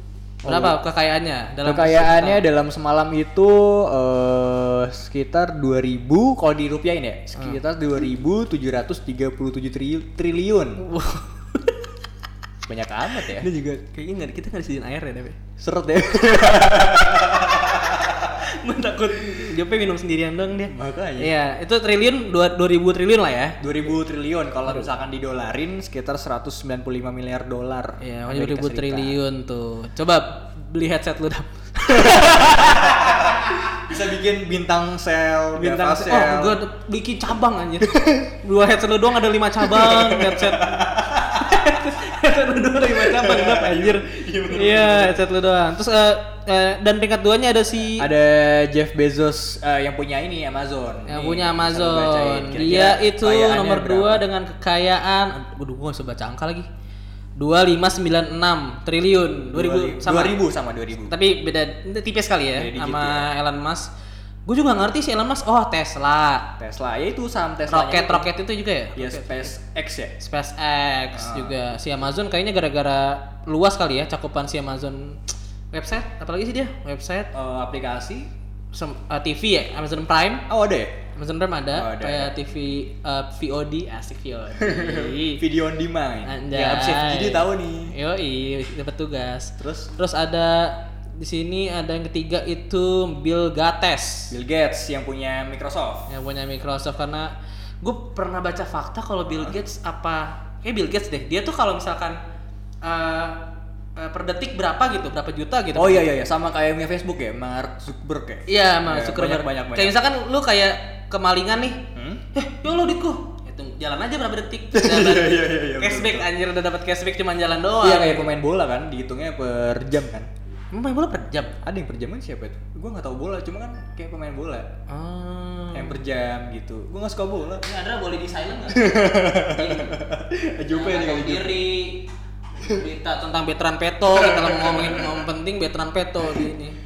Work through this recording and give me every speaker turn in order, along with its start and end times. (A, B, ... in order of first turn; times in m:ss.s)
0:00.4-0:02.4 A
0:00.4-0:00.8 B
0:01.6-0:10.8 B
0:10.8-0:11.9 A
0:12.6-0:13.5 B
0:13.2-0:15.4 A
0:15.6-0:18.4 B
0:18.4-0:23.6 A
0:20.7-0:21.3 B
0:23.6-0:29.2 B
0:28.0-0:33.7 A
0:32.0-0:36.6 B
0:35.5-0:40.8 A
0:37.8-0:38.2 B
0:39.6-0:41.8 B
0:41.3-0:48.1 A
0:42.8-0:45.3 B
0:48.0-0:54.2 B
0:51.1-0:56.7 A
0:57.4-1:00.4 A
0:59.5-1:01.1 B
1:01.1-1:03.9 A
1:02.5-1:03.3 B
1:04.4-1:06.5 A
1:06.6-1:08.3 B
1:07.7-1:09.5 A
1:09.0-1:10.1 B
1:10.2-1:15.2 A
1:11.1-1:11.5 B
1:15.7-1:17.3 A
1:17.3-1:18.3 B
1:18.7-1:20.4 A
1:20.5-1:20.9 B
1:21.2-1:25.4 A
1:21.7-1:22.3 B
1:24.6-1:27.9 B
1:26.2-1:34.3 A
1:29.6-1:29.9 B
1:34.3-1:36.1 B
1:36.1-1:42.2 A
1:42.8-1:43.4 A
1:44.0-1:46.1 A
1:45.8-1:49.9 B
1:48.5-1:58.2 A
1:51.9-1:52.2 B
1:54.7-1:56.3 B
1:57.8-2:00.3 B
2:00.7-2:01.5 A
2:01.6-2:04.7 B
2:04.9-2:06.0 A
2:05.7-2:07.6 B
2:07.6-2:10.0 A
2:08.7-2:11.7 B
2:10.7-2:12.0 A
2:12.6-2:16.8 A
2:14.1-2:15.2 B
2:16.2-2:16.5 B